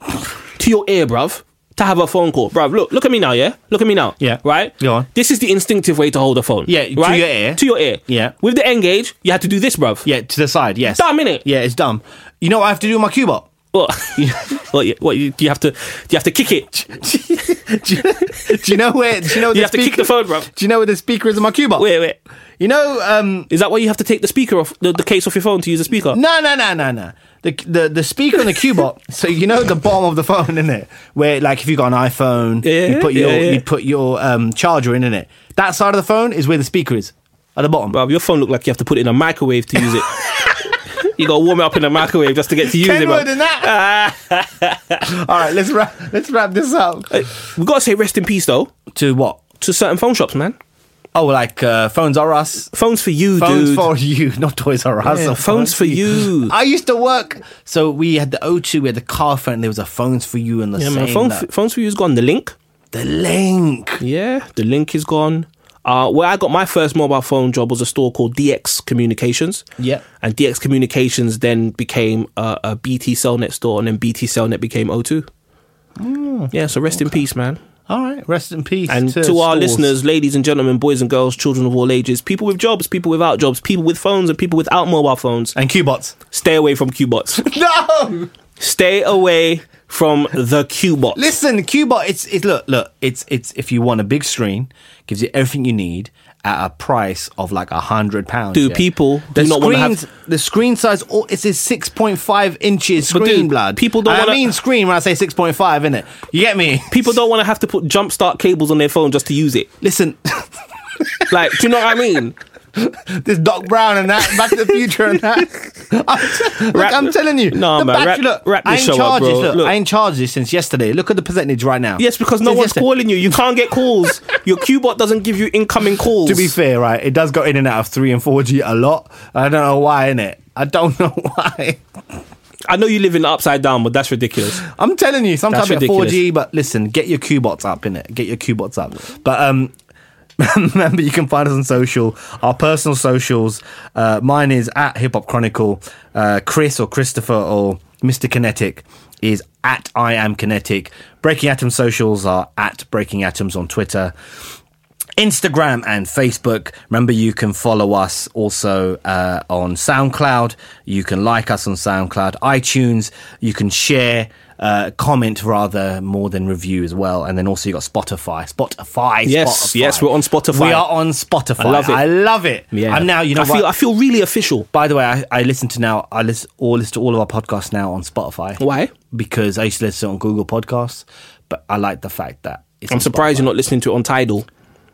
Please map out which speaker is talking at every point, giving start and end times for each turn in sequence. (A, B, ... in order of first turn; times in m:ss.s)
0:00.6-0:10.1 A
0:04.2-0:05.1 B
0:06.7-0:08.3 B
0:10.0-0:13.5 B
0:10.9-0:11.4 A
0:13.7-0:16.7 A
0:16.7-0:21.9 B
0:19.4-0:20.5 A
0:21.8-0:22.2 A
0:22.6-0:23.5 B
0:23.5-0:26.2 A
0:26.1-0:38.0 B
0:32.6-0:33.6 A
0:37.9-0:45.0 A
0:39.8-0:40.7 B
0:42.6-0:43.8 B
0:45.0-0:47.1 B
0:47.1-0:48.7 A
0:48.9-0:49.4 B
0:49.6-0:50.6 A
0:51.1-0:52.7 B
0:52.7-0:53.9 A
0:53.4-1:01.5 B
0:55.0-0:56.5 A
1:00.8-1:02.5 A
1:02.9-1:04.0 B
1:04.0-1:09.6 A
1:09.8-1:10.0 B
1:10.2-1:15.3 A
1:16.0-1:17.2 B
1:16.5-1:17.6 A
1:17.9-1:19.9 B
1:18.9-1:25.6 A
1:25.5-1:26.2 B
1:26.3-1:27.5 A
1:27.4-1:28.3 B
1:28.6-1:31.2 A
1:31.1-1:47.2 B
1:38.5-1:40.0 A
1:43.0-1:44.5 A
1:46.9-1:49.7 A
1:49.8-1:51.6 B
1:51.3-1:52.4 A
1:52.7-2:02.9 B
1:56.6-1:59.7 A
2:02.0-2:06.5 A
2:06.2-2:11.8 B
2:12.7-2:14.6 A
2:14.6-2:19.7 B
2:15.5-2:16.2 A
2:20.4-2:34.1 B
2:35.2-2:53.7 B
2:49.2-2:50.9 A
2:51.6-2:52.0 A
2:52.7-2:54.7 A
2:54.7-3:03.5 B
2:58.6-2:58.9 A
3:02.9-3:04.4 A